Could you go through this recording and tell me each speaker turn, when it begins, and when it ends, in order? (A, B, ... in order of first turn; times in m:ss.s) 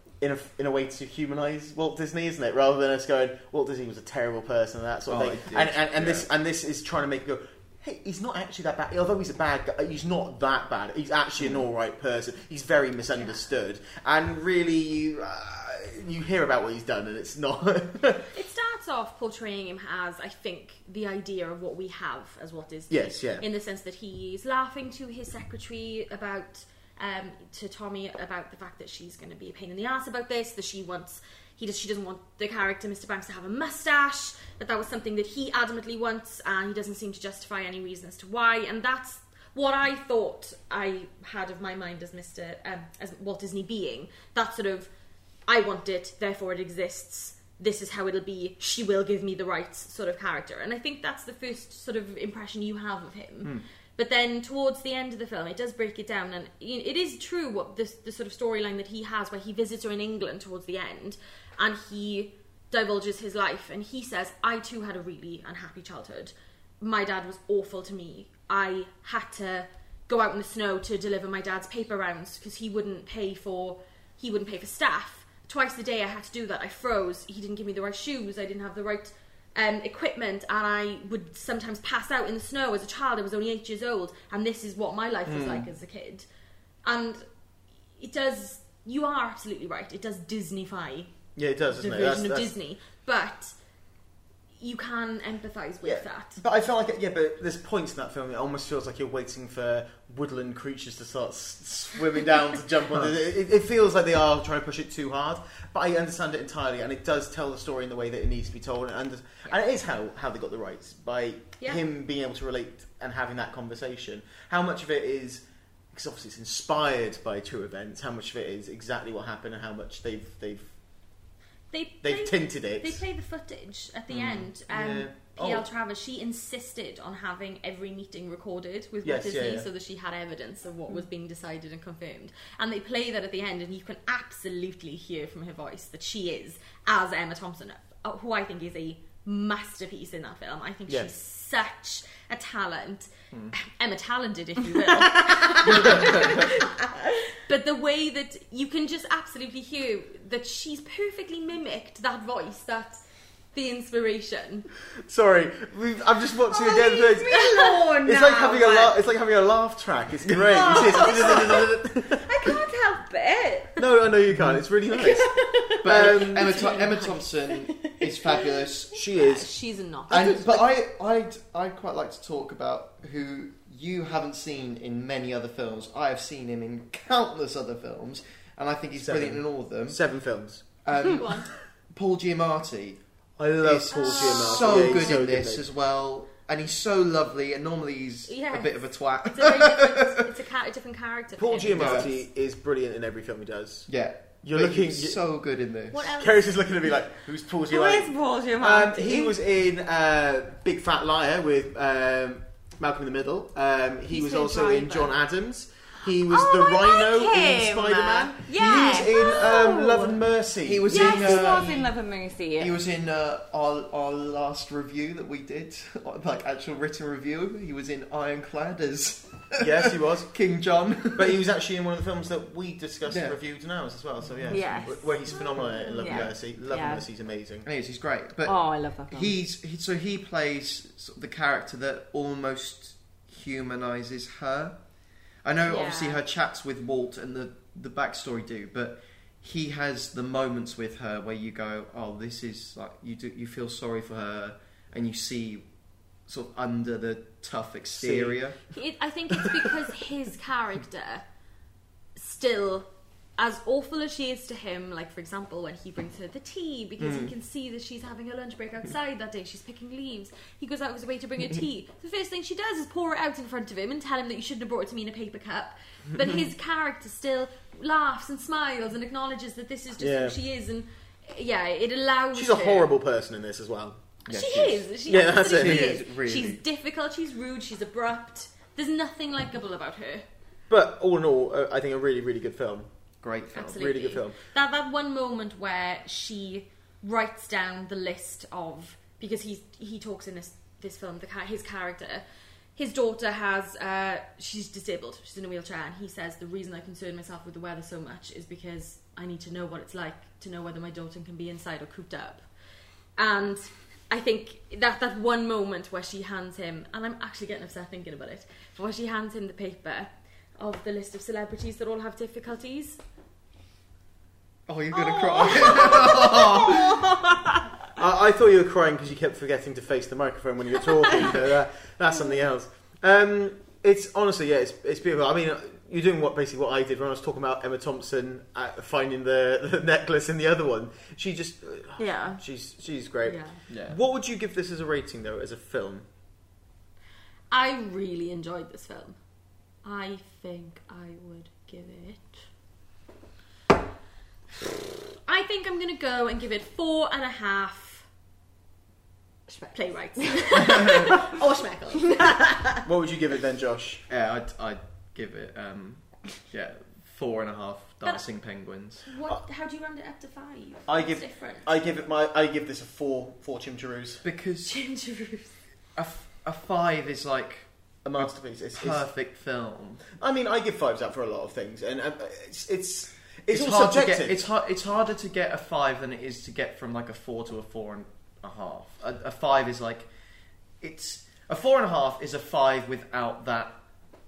0:00.2-0:18.3 A
0:05.1-0:06.3 B
0:18.3-0:44.9 C
0:22.9-0:23.4 A
0:45.5-1:26.3 C
1:26.8-1:27.2 C
1:28.0-1:31.1 C
1:31.4-1:32.5 A
1:31.8-1:33.6 C
1:34.6-1:36.4 C
1:35.8-2:00.7 A
2:01.7-2:26.7 C
2:02.0-2:03.0 A
2:04.1-2:04.5 B
2:04.7-2:05.7 A
2:09.0-2:09.7 A
2:25.1-2:26.6 D
2:25.6-2:26.5 B
2:27.5-2:33.0 C
2:33.5-2:34.7 C
2:35.0-2:42.6 A
2:36.5-2:38.9 D
2:37.5-2:38.1 C
2:40.5-2:43.7 D
2:43.8-2:46.8 A
2:44.3-2:44.6 B
2:45.0-2:45.3 D
2:45.8-2:49.0 B
2:46.3-2:47.2 C
2:48.9-2:49.5 A
2:49.1-2:50.5 C
2:50.1-2:50.6 A
2:50.1-3:00.0 B
2:59.0-3:00.6 A
3:00.8-3:03.0 B
3:01.0-3:01.5 C
3:03.4-3:05.6 A
3:03.5-3:10.2 B
3:03.9-3:05.1 C
3:08.3-3:12.1 C
3:11.4-3:13.9 A
3:11.7-3:12.1 B
3:13.9-3:16.0 B
3:14.4-3:15.2 A
3:16.0-3:16.3 D
3:16.0-3:31.7 A
3:17.7-3:19.4 D
3:24.1-3:25.1 D
3:26.3-3:30.2 D
3:30.6-3:31.9 B
3:30.9-3:32.8 D
3:32.6-3:41.4 B
3:39.6-3:40.3 A
3:41.2-3:47.7 A
3:43.0-3:43.4 B
3:44.3-3:44.6 B
3:44.5-3:45.2 D
3:45.3-3:46.0 C
3:46.0-3:47.0 D
3:46.0-3:46.3 B
3:47.7-3:54.8 B
3:48.4-3:49.3 D
3:55.4-4:05.6 B
3:55.7-3:56.2 D
4:06.3-4:08.6 B
4:08.0-4:08.4 A
4:08.7-4:11.2 C
4:12.2-4:32.9 C
4:17.0-4:17.3 A
4:30.0-4:30.4 A
4:32.4-4:34.2 A
4:34.3-4:40.3 C
4:34.3-4:36.6 B
4:35.1-4:36.0 A
4:40.7-4:42.9 A
4:43.2-4:43.8 B
4:43.5-4:52.2 C
4:43.7-4:44.4 A
4:52.8-5:02.5 C
5:03.2-5:13.0 C
5:14.7-5:17.1 B
5:15.1-5:17.3 D
5:18.0-5:36.1 A
5:32.0-5:32.4 D
5:33.2-5:33.6 C
5:33.7-5:34.0 B
5:37.5-5:39.2 C
5:39.8-5:42.4 C
5:45.2-5:48.1 C
5:49.6-5:52.6 C
5:50.6-5:51.0 B
5:52.8-5:54.0 A
5:54.1-5:59.0 B
5:59.1-6:01.7 C
6:00.9-6:04.2 A
6:04.2-6:04.7 B
6:04.7-6:05.5 C
6:06.0-6:10.0 B
6:08.0-6:09.1 A
6:10.1-6:14.4 A
6:13.5-6:20.1 B
6:20.8-6:23.8 B